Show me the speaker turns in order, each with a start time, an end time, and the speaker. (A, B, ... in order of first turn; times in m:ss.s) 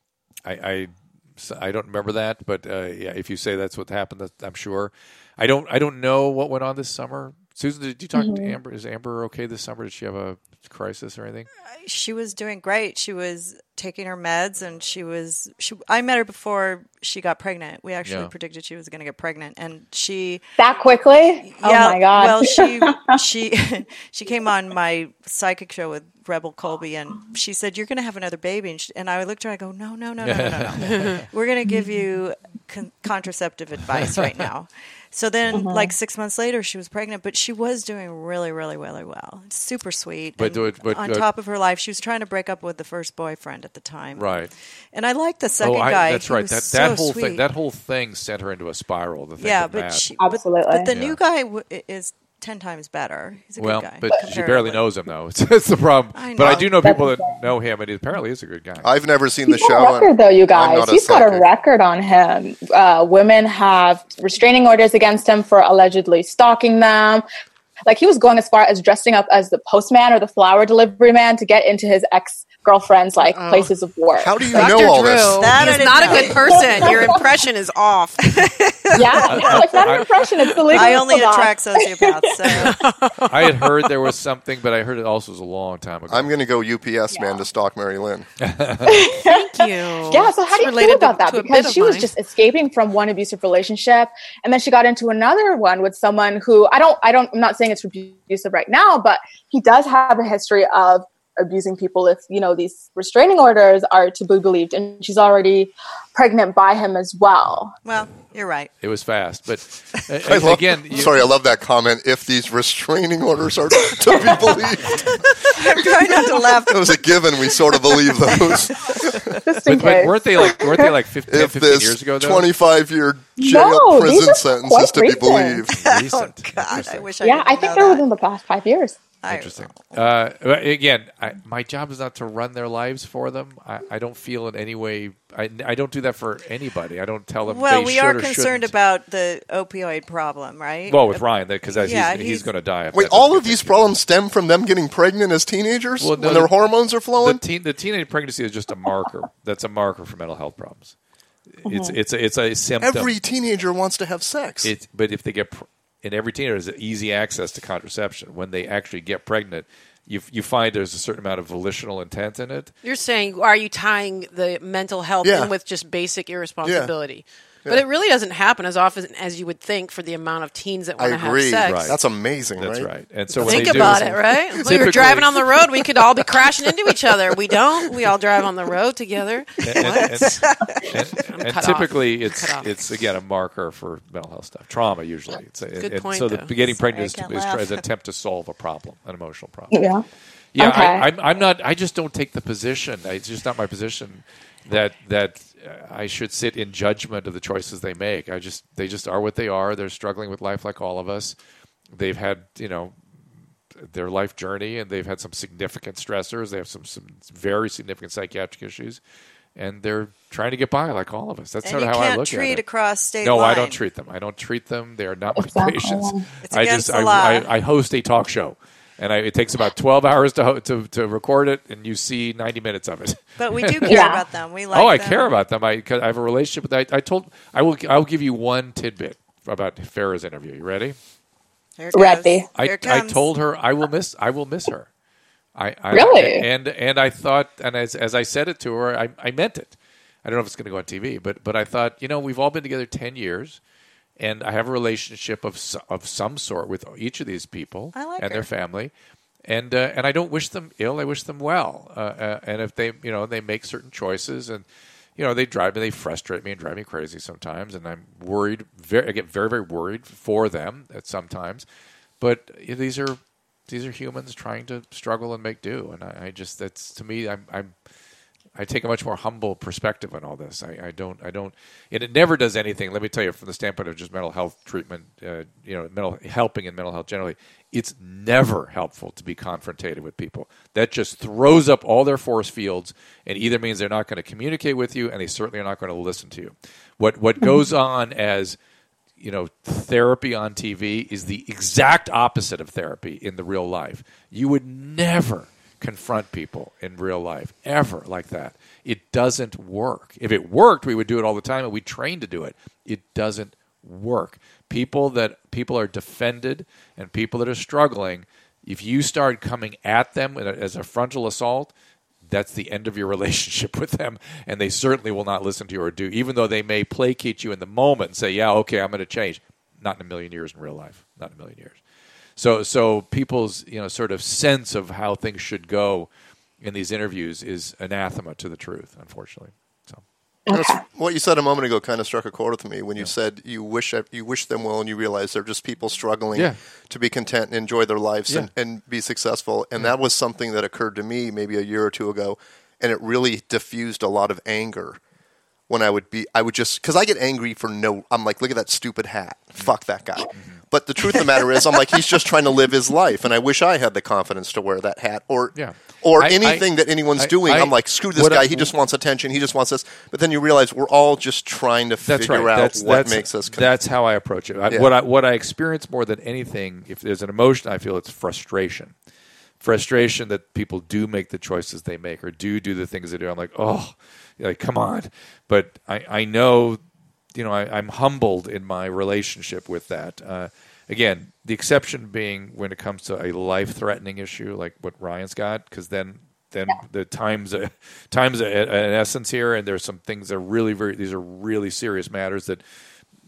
0:00.4-0:11.5 A
0:08.2-0:08.6 B
0:11.7-0:20.4 C
0:18.0-0:18.3 A
0:20.6-0:23.0 B
0:21.4-0:47.4 C
0:30.2-0:31.2 A
0:30.8-0:31.2 D
0:34.0-0:34.3 A
0:35.5-0:35.9 B
0:40.4-0:41.2 A
0:44.1-0:44.5 A
0:45.6-0:50.1 A
0:49.4-0:54.8 C
0:50.2-0:50.9 B
0:50.9-0:51.2 A
0:53.6-0:58.9 A
0:56.1-0:56.7 C
0:56.5-0:57.3 B
0:58.8-1:01.5 E
0:59.5-1:07.2 B
1:07.8-1:14.8 B
1:13.3-1:13.7 D
1:14.2-1:16.3 E
1:14.5-1:19.5 D
1:14.6-1:17.2 C
1:16.2-1:17.1 B
1:18.9-1:19.6 C
1:18.9-1:22.6 B
1:19.3-1:20.1 A
1:20.7-1:22.8 C
1:22.5-1:24.0 D
1:23.3-1:26.3 A
1:26.1-1:28.3 E
1:27.1-1:27.4 B
1:28.4-1:29.0 A
1:28.8-1:47.7 B
1:29.2-1:32.1 D
1:47.8-1:48.7 C
1:48.8-1:51.2 A
1:50.2-1:55.1 E
1:55.5-1:59.4 C
1:56.7-1:59.3 E
1:59.4-2:00.9 B
1:59.6-2:02.5 A
2:01.3-2:05.7 E
2:03.4-2:05.6 B
2:05.7-2:08.0 C
2:05.7-2:07.1 A
2:07.2-2:09.0 B
2:09.2-2:10.0 C
2:09.3-2:18.7 A
2:17.4-2:22.5 C
2:20.9-2:24.0 A
2:22.9-2:27.4 E
2:26.0-2:26.5 A
2:27.1-2:30.9 A
2:31.6-2:33.1 A
2:31.6-2:32.0 B
2:32.8-2:34.7 E
2:34.6-2:42.7 A
2:42.8-2:51.9 D
2:45.2-2:45.5 E
2:46.6-2:46.9 E
2:51.0-2:54.0 E
2:51.6-2:52.0 A
2:52.6-2:55.4 A
2:53.4-3:02.8 D
2:59.6-3:09.7 A
3:05.8-3:06.6 D
3:06.6-3:07.8 C
3:09.7-3:10.0 B
3:10.5-3:21.4 A
3:10.6-3:11.0 B
3:21.9-3:22.9 A
3:23.8-3:29.0 A
3:29.6-3:32.6 A
3:31.6-3:33.8 C
3:33.2-3:44.1 A
3:35.4-3:36.2 B
3:36.4-3:37.5 C
3:43.4-3:45.4 C
3:43.8-3:44.2 B
3:44.7-3:51.0 A
3:51.8-3:53.2 C
3:51.9-3:52.5 B
3:52.6-3:54.9 A
3:55.6-4:03.6 A
3:55.9-3:56.4 B
4:04.2-4:08.9 A
4:07.9-4:08.5 C
4:09.5-4:14.6 A
4:15.2-4:21.6 A
4:22.2-4:27.7 A
4:28.6-4:48.6 A
4:49.2-5:11.7 A
5:12.2-5:21.8 A
5:22.4-5:26.1 A
5:26.6-5:30.0 A
5:30.5-5:30.8 B
5:30.5-5:45.0 E
5:45.7-6:03.7 E
5:55.5-5:58.7 A
6:02.0-6:08.9 A
6:09.6-6:16.8 A
6:17.3-6:32.6 A